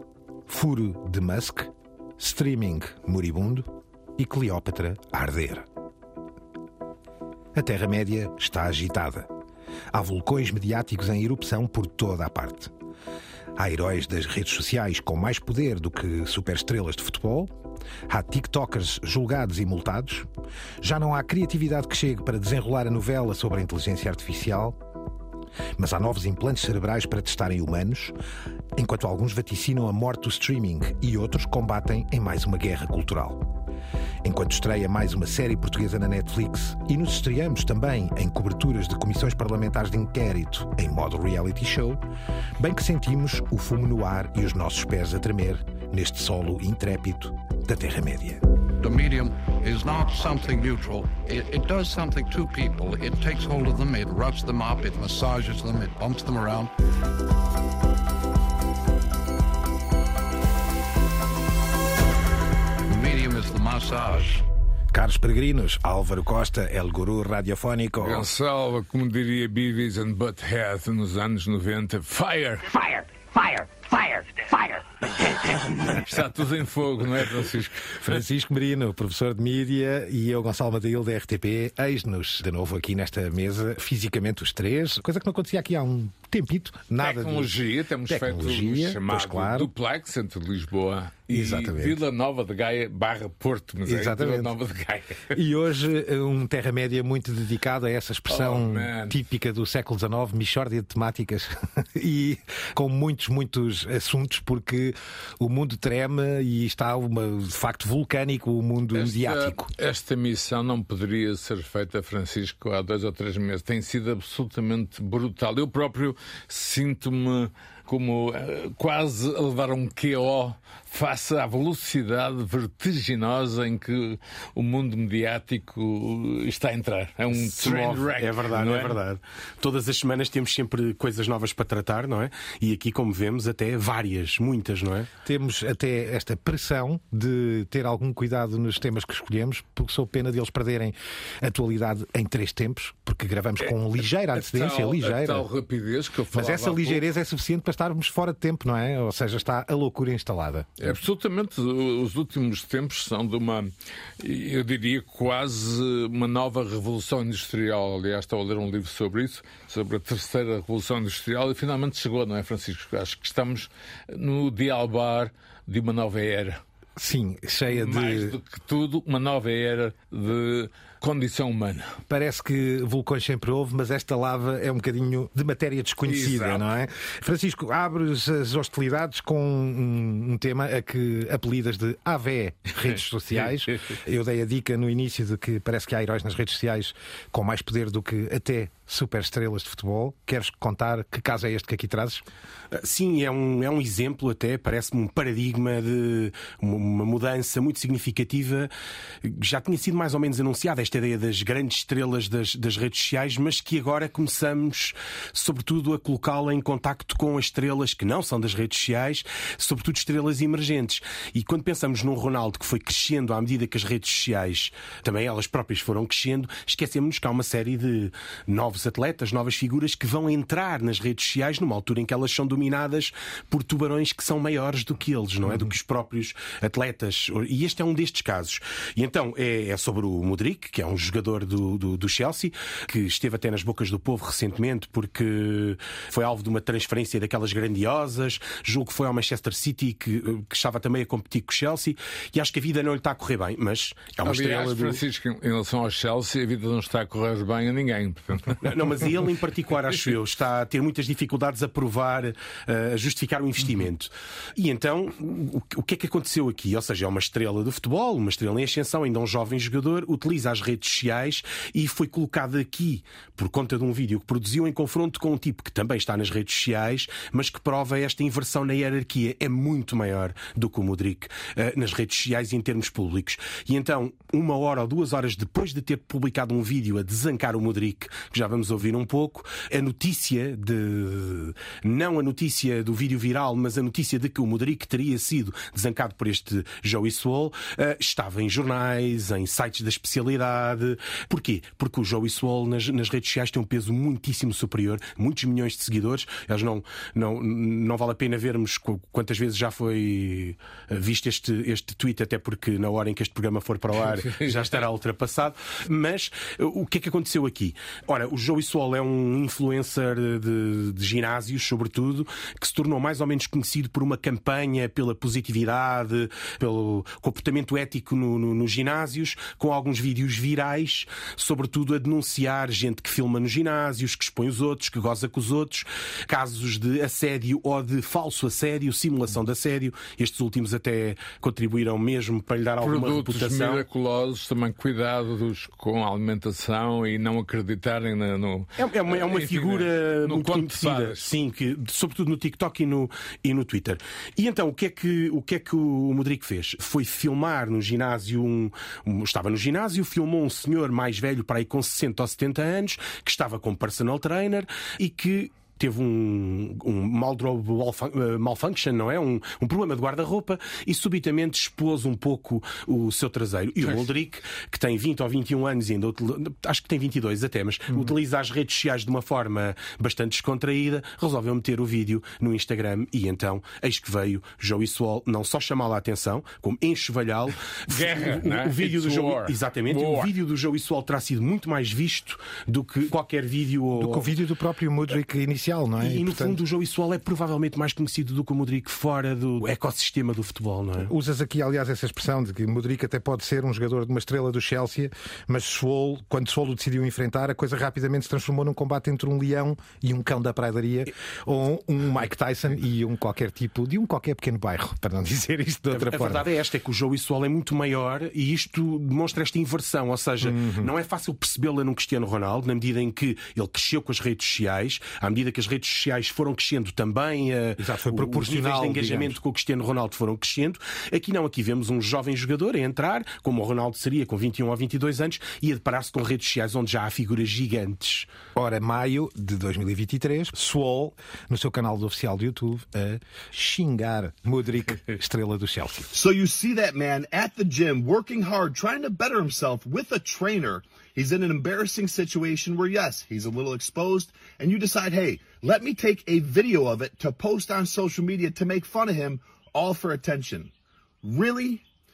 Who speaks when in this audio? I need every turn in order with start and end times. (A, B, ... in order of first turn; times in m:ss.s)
0:00.5-0:03.7 A
0:04.2-0:05.6 A
0:07.5-0:09.3 A
0:09.9-0:12.7 A
0:13.6-0:17.5 A
0:18.1-0:20.3 A
0:20.8-0:24.8 A
0:25.8-0:28.1 A
0:28.8-0:33.4 A
0:34.2-0:42.0 A
0:42.6-0:48.4 A
0:48.8-0:56.7 B
1:02.9-1:04.4 B
1:04.9-1:08.3 A
1:08.0-1:14.8 C
1:15.4-1:18.0 C
1:17.9-1:27.5 A
1:27.0-1:35.3 C
1:28.1-1:29.7 A
1:31.3-1:32.0 A
1:33.8-1:34.5 A
1:35.3-1:49.7 A
1:38.3-1:39.1 C
1:48.9-2:09.0 C
2:07.3-2:15.1 D
2:15.2-2:25.5 A
2:23.6-2:27.0 C
2:26.3-2:30.9 A
2:30.8-2:46.6 C
2:47.0-2:48.3 A
2:47.7-2:51.9 C
2:52.1-3:12.2 A
2:56.0-2:56.7 C
3:03.4-3:03.7 C
3:12.7-3:18.7 D
3:19.2-4:05.0 D
4:04.2-4:09.1 C
4:08.6-5:33.8 D
5:04.1-5:04.7 C
5:32.8-5:41.3 C
5:38.8-6:24.3 D
6:17.8-6:20.3 C
6:24.0-6:26.6 A
6:26.0-6:31.1 D
6:31.0-6:46.4 A
6:45.9-7:08.3 D
6:50.4-6:50.9 A
6:57.8-6:59.4 A
7:08.6-7:16.1 A
7:16.1-7:30.7 E
7:31.2-7:31.8 E